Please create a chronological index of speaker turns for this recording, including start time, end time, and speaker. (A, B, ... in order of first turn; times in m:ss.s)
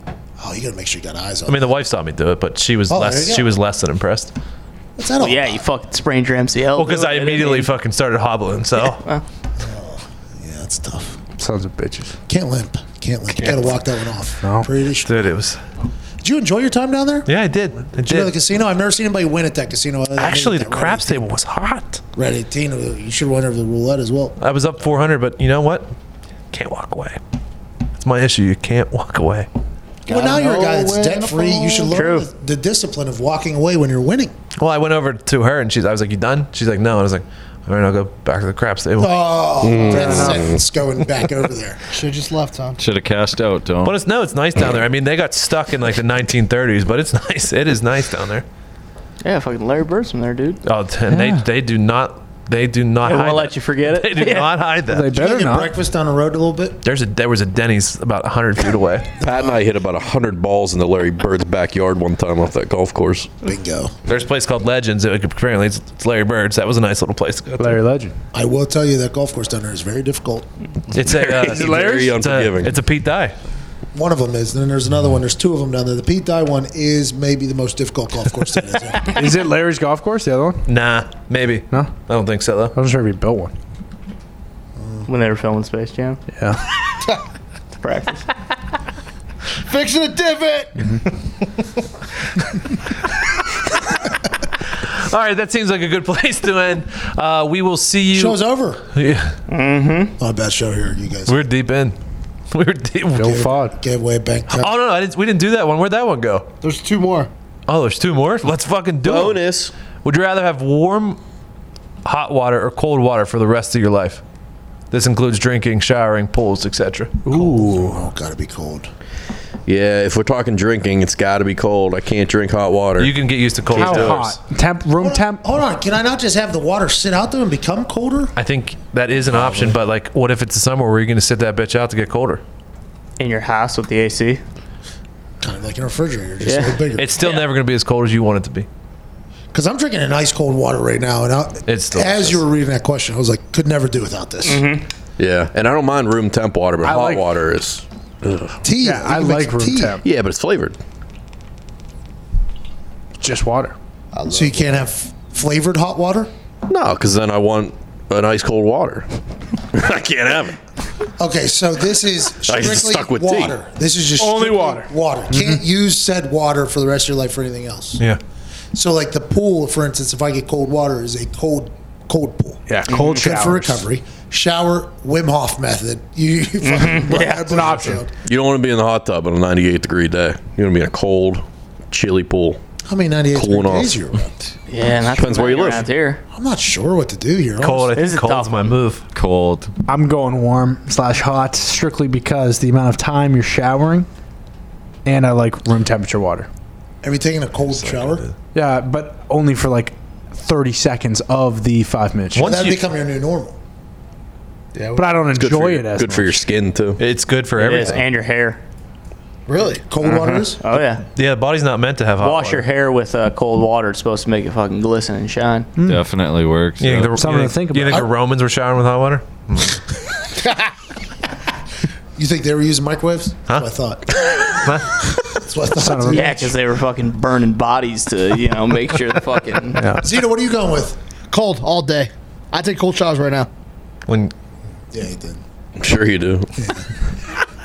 0:00.4-0:01.7 A
0:01.5-0:04.3 B
0:02.9-0:03.5 A
0:05.0-0:05.6 A
0:05.2-0:07.7 C
0:06.8-0:09.0 B
0:08.8-0:09.2 C
0:09.6-0:11.2 A
0:11.4-0:12.2 D
0:12.3-0:15.3 A
0:14.4-0:14.7 D
0:15.0-0:15.6 B
0:16.2-0:21.3 A
0:17.3-0:18.3 B
0:20.2-0:22.0 B
0:22.1-0:24.4 A
0:24.4-0:25.9 B
0:26.5-0:27.2 B
0:28.0-0:29.5 B
0:30.0-0:32.0 E
0:30.1-0:34.4 A
0:31.9-0:32.3 C
0:34.6-0:39.2 B
0:39.0-0:41.8 A
0:39.6-0:40.6 F
0:39.9-0:40.4 D
0:41.9-0:42.8 E
0:42.8-0:44.0 G
0:43.8-0:48.4 B
0:49.2-0:50.6 C
0:50.6-0:55.1 B
0:51.1-0:51.4 D
0:53.0-0:54.6 C
0:54.9-0:55.8 D
0:55.1-0:56.8 A
0:56.8-0:59.1 B
0:59.2-1:03.3 F
1:03.4-1:03.9 A
1:04.1-1:07.8 B
1:07.6-1:08.2 D
1:08.3-1:10.5 A
1:10.9-1:13.3 B
1:11.1-1:12.8 F
1:11.5-1:12.2 D
1:13.9-1:19.3 A
1:19.0-1:20.6 D
1:20.7-1:22.8 B
1:22.7-1:23.5 D
1:24.8-1:25.1 A
1:25.1-1:26.2 C
1:26.3-1:26.6 D
1:27.8-1:28.2 C
1:29.7-1:30.8 E
1:34.8-1:38.4 B
1:38.1-1:38.8 A
1:38.9-1:39.3 B
1:39.5-1:40.1 C
1:40.2-1:41.4 A
1:41.2-1:42.0 B
1:42.5-1:43.4 B
1:43.2-1:43.8 D
1:43.2-1:44.7 A
1:44.5-1:46.5 B
1:46.6-1:47.3 E
1:47.7-1:49.4 B
1:49.0-1:49.7 F
1:50.0-1:51.2 B
1:52.0-1:54.2 B
1:54.9-1:57.1 B
1:57.2-1:58.0 D
1:57.3-1:58.9 A
1:59.6-2:03.1 F
2:03.0-2:04.3 B
2:03.7-2:04.2 F
2:03.7-2:05.4 D
2:05.0-2:08.3 A
2:08.4-2:12.4 B
2:13.2-2:14.4 C
2:15.4-2:17.1 A
2:16.4-2:17.4 C
2:17.0-2:18.7 B
2:19.5-2:24.7 A
2:21.6-2:22.4 B
2:24.4-2:24.8 C
2:25.2-2:28.6 F
2:26.8-2:27.3 D
2:28.6-2:30.0 A
2:28.7-2:30.0 D
2:30.0-2:30.8 F
2:33.2-2:33.7 D
2:34.1-2:34.9 E
2:34.3-2:36.3 A
2:36.6-2:39.1 F
2:39.7-2:40.6 F
2:41.2-2:48.0 A
2:42.4-2:43.6 F
2:44.2-2:45.6 D
2:48.7-2:58.1 A
2:52.7-2:53.8 D
2:52.9-2:53.2 C
2:56.6-2:57.7 C
2:57.3-2:58.0 D
2:58.2-3:02.6 F
3:02.8-3:04.3 A
3:03.3-3:04.1 F
3:04.7-3:06.2 C
3:05.1-3:05.9 F
3:06.3-3:07.9 A
3:07.6-3:09.0 B
3:07.9-3:08.7 C
3:09.1-3:09.7 G
3:09.8-3:14.1 D
3:15.0-3:16.5 D
3:17.0-3:18.2 A
3:17.9-3:18.3 B
3:18.5-3:22.5 D
3:22.3-3:22.8 B
3:22.4-3:23.6 A
3:24.7-3:25.2 E
3:25.0-3:26.4 D
3:25.3-3:27.0 F
3:27.0-3:28.0 B
3:27.6-3:28.6 C
3:29.5-3:29.8 E
3:29.8-3:30.6 A
3:30.0-3:31.0 C
3:31.1-3:32.6 B
3:32.2-3:35.7 C
3:35.8-3:36.0 D
3:35.8-3:37.3 G
3:36.8-3:39.8 B
3:37.2-3:38.1 D
3:42.2-3:44.7 A
3:44.2-3:45.0 B
3:45.3-3:46.6 A
3:45.8-3:46.3 D
3:46.1-3:49.9 C
3:49.7-3:50.1 D
3:50.0-3:51.0 A
3:51.3-3:53.5 E
3:54.1-3:54.3 B
3:54.9-3:55.4 A
3:55.8-3:56.5 F
3:56.6-3:56.8 A